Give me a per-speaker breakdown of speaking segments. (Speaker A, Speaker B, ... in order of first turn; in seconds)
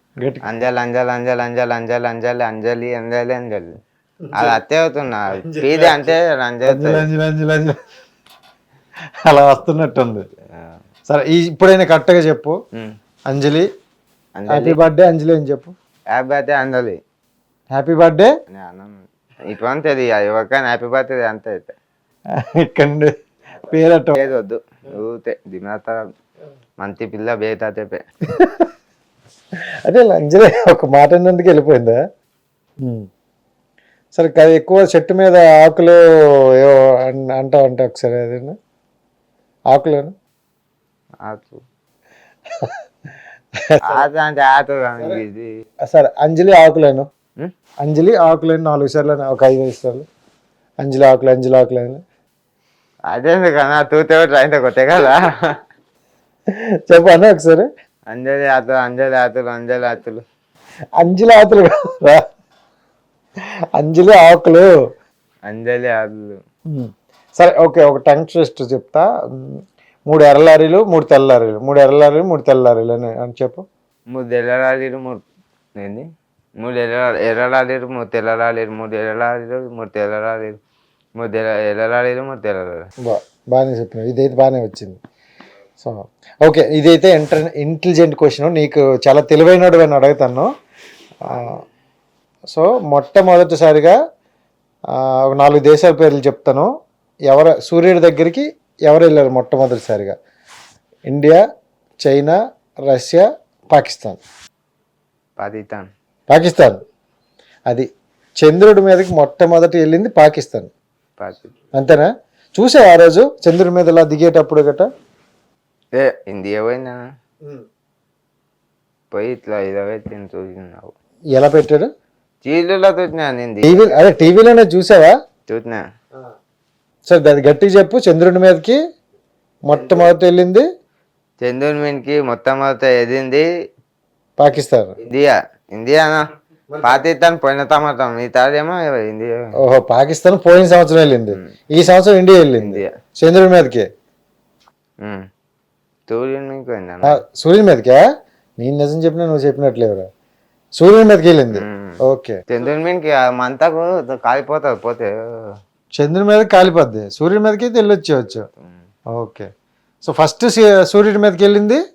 Speaker A: 0.2-0.5, 4.2-4.6, 5.3-7.8, 9.2-10.3, 11.1-12.6, 13.3-13.7, 14.5-15.7, 17.7-18.3, 22.4-23.1, 23.7-24.2, 28.4-28.7, 29.9-32.0, 32.8-33.1, 34.1-36.0, 36.6-38.6, 39.7-40.1, 43.7-44.1, 45.9-47.1, 47.8-50.1, 50.8-52.0, 56.5-57.7, 61.0-62.2, 63.8-64.7, 66.7-73.7, 83.0-85.0, 85.8-90.5, 91.2-91.6, 92.5-94.0, 95.0-96.7, 97.3-100.2, 101.1-101.4, 102.0-102.4, 102.9-104.2, 106.3-106.8, 108.4-110.7, 111.7-114.9, 121.3-121.9, 123.6-125.2, 127.1-128.8, 129.7-130.6, 134.4-134.9, 136.7-137.0, 139.6-143.9, 147.0-148.0, 148.6-150.1, 150.8-152.4, 156.0-158.5, 159.2-159.5, 160.0-161.8
Speaker B: 0.4-3.7, 4.3-7.1, 10.5-10.8, 14.4-14.8, 16.1-17.0, 18.5-19.0, 19.5-21.7, 24.1-26.0, 26.8-28.0, 41.2-41.6, 43.9-45.5, 53.1-55.6, 58.1-60.2, 65.5-66.4, 74.1-75.2, 75.8-76.0, 76.6-80.6, 81.2-82.9, 105.4-105.9, 111.2-111.6, 115.9-117.0, 119.1-120.9, 122.5-124.0, 125.5-125.8, 129.7-130.1, 131.4-133.5, 135.0-136.2, 136.8-139.4, 142.6-142.9, 146.1-147.2, 151.5-155.5